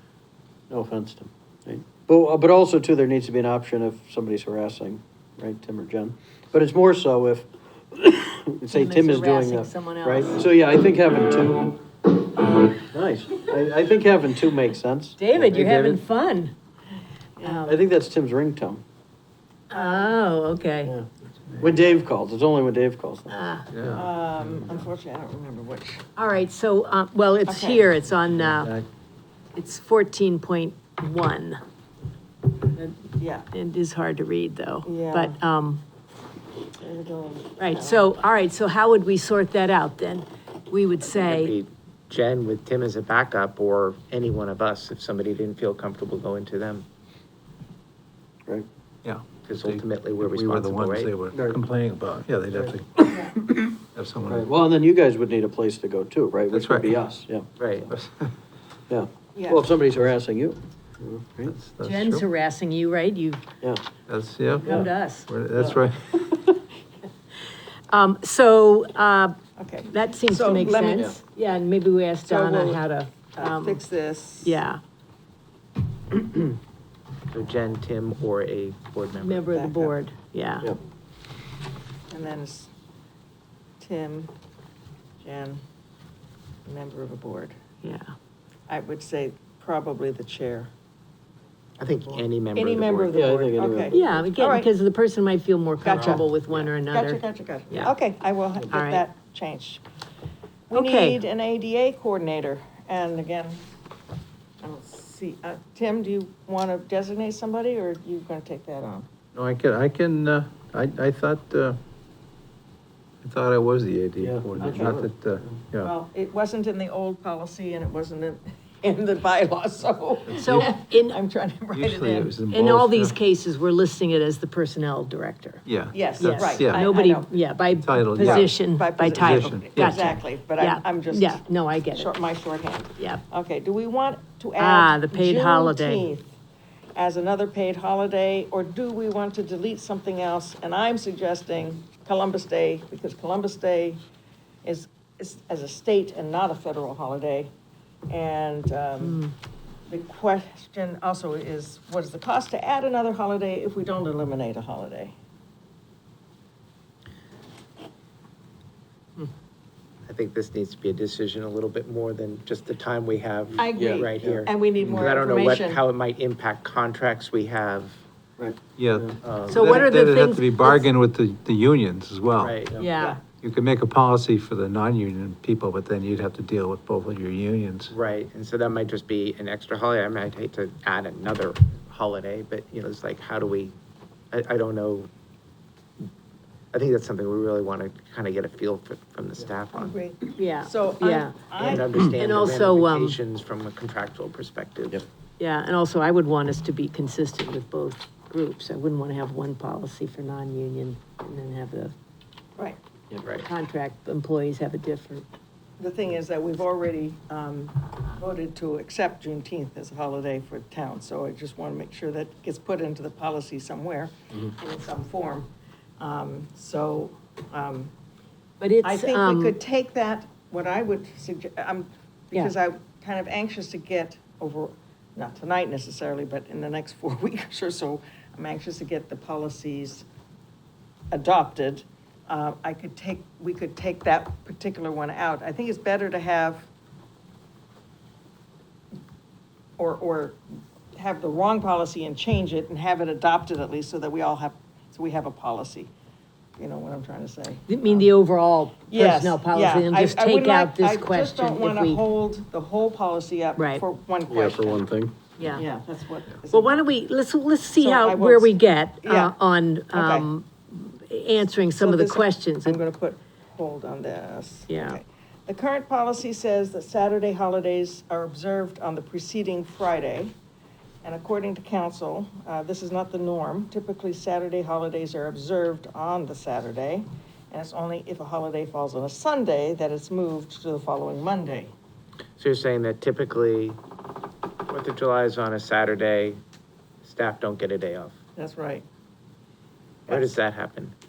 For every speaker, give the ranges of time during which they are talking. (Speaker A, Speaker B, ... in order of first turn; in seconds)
Speaker A: 0.7-11.8, 12.8-15.2, 17.6-18.8, 21.6-23.3, 51.3-51.6, 52.5-53.6, 54.3-57.5, 58.9-61.5, 70.9-71.2, 93.1-94.0, 114.2-115.5, 163.7-164.4, 168.4-169.1, 254.3-255.1
Speaker B: 8.7-10.4, 15.2-16.5, 17.4-17.8, 19.7-20.9, 23.3-23.7, 26.2-28.7, 29.6-31.6, 33.5-35.8, 37.6-41.5, 61.8-63.4, 64.6-65.3, 67.9-69.4, 69.9-73.8, 74.4-74.8, 79.2-80.7, 87.8-88.1, 93.9-97.9, 98.7-99.0, 100.7-101.2, 120.3-121.2, 122.5-125.6, 126.2-132.1, 133.0-133.2, 134.6-136.1, 149.0-149.3, 169.5-170.9, 172.8-173.2, 190.4-193.2, 195.4-201.9, 203.4-205.3, 218.6-219.6, 247.7-252.0, 253.6-253.8, 255.4-255.7, 256.5-262.8, 264.7-265.0
Speaker C: 15.4-16.0, 21.5-21.8, 23.7-24.6, 28.3-28.9, 49.0-53.0, 53.9-54.5, 56.5-57.1, 57.9-58.3, 61.4-62.2, 64.1-66.4, 109.3-111.8, 113.2-115.9, 120.3-120.7, 121.7-123.2, 125.7-126.9, 127.8-128.5, 129.1-130.2, 168.8-172.7, 173.4-177.9
Speaker D: 19.7-20.1, 23.9-26.0, 27.5-27.9, 33.2-33.5, 34.9-35.4, 36.8-38.1, 59.4-59.7, 69.6-71.1, 72.2-72.8, 73.4-74.6, 79.5-80.0, 82.1-82.7, 83.8-84.3, 85.2-85.6, 86.7-87.5, 88.7-90.7, 92.1-94.7, 95.8-99.8, 100.7-103.6, 104.6-109.1, 115.8-122.3, 125.9-127.3, 128.2-136.3, 137.0-144.0, 144.6-147.5, 148.1-149.2, 149.9-155.2, 163.6-165.8, 189.7-191.9, 205.8-217.9, 218.8-230.1, 231.1-236.7, 239.8-240.4, 240.9-245.9, 246.6-248.1, 248.9-254.8, 255.5-256.8, 257.8-259.4, 259.9-260.3, 261.8-270.4, 271.0-281.7, 288.4-288.9, 290.1-290.4
Speaker E: 41.1-46.9, 49.4-51.1, 57.6-57.9, 77.3-79.5, 91.8-93.2, 96.0-96.7, 160.1-168.0, 169.2-169.8, 172.4-172.7, 177.9-183.7, 184.3-185.1, 186.7-190.0, 191.6-195.0, 203.2-203.5, 282.4-283.8, 284.7-286.4, 287.0-288.2, 290.1-290.9